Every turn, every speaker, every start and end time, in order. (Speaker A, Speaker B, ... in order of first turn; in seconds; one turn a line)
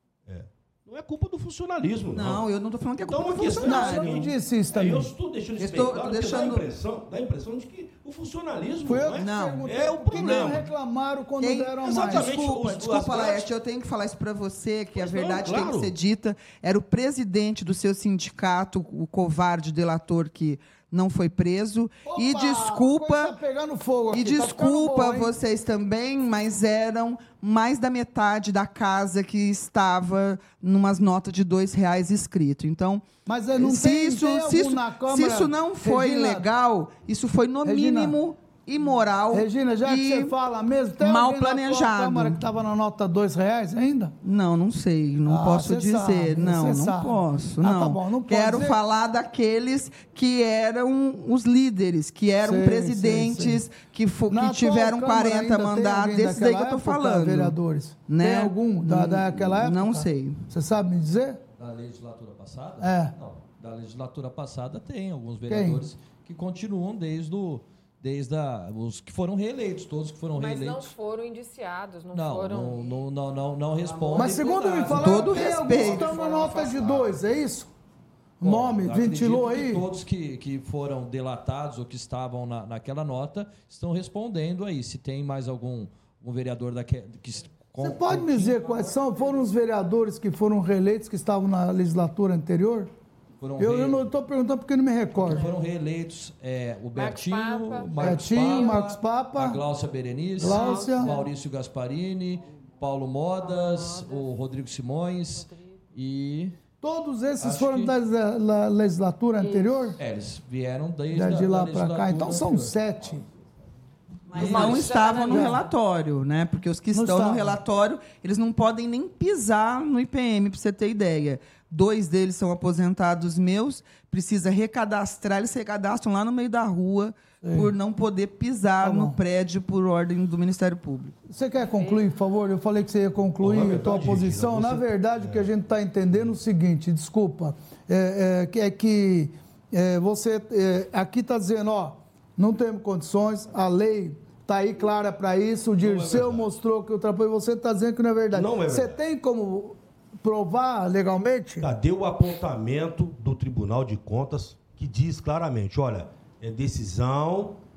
Speaker A: 0.2-2.4
Speaker B: 2.1-4.2
Speaker A: 3.0-10.7
Speaker C: 3.6-5.1
Speaker B: 5.6-6.7
Speaker C: 8.8-12.6
Speaker B: 9.2-10.6
Speaker B: 11.4-23.4
Speaker A: 11.8-13.5
Speaker A: 14.9-15.9
Speaker C: 22.1-25.3
Speaker B: 24.1-40.3
Speaker C: 33.2-36.5
Speaker C: 37.6-38.1
Speaker C: 39.3-44.1
Speaker B: 41.0-42.4
Speaker B: 44.2-57.5
Speaker C: 45.3-48.8
Speaker C: 52.4-53.6
Speaker C: 54.3-61.4
Speaker B: 58.1-60.4
Speaker D: 61.5-70.9
Speaker C: 62.8-63.1
Speaker C: 65.5-65.9
Speaker E: 70.3-73.0
Speaker D: 72.1-77.2
Speaker E: 73.8-76.8
Speaker C: 74.1-77.7
Speaker B: 74.9-76.0
Speaker C: 78.4-79.8
Speaker D: 78.4-89.4
Speaker C: 87.8-92.9
Speaker D: 93.4-94.1
Speaker C: 93.6-95.5
Speaker D: 95.1-106.5
Speaker E: 96.9-98.8
Speaker C: 97.9-99.6
Speaker C: 100.4-101.2
Speaker E: 100.4-101.2
Speaker E: 103.5-104.3
Speaker C: 106.8-110.0
Speaker D: 107.4-107.9
Speaker E: 109.4-109.9
Speaker D: 110.0-112.8
Speaker C: 111.1-113.2
Speaker B: 114.3-131.1
Speaker E: 114.3-115.6
Speaker D: 114.4-115.1
Speaker C: 115.3-115.6
Speaker C: 116.9-117.6
Speaker C: 127.4-127.7
Speaker C: 128.8-129.2
Speaker C: 131.3-151.7
Speaker E: 131.6-132.0
Speaker A: 133.4-135.5
Speaker A: 145.8-146.5
Speaker A: 148.3-149.0
Speaker A: 151.6-157.6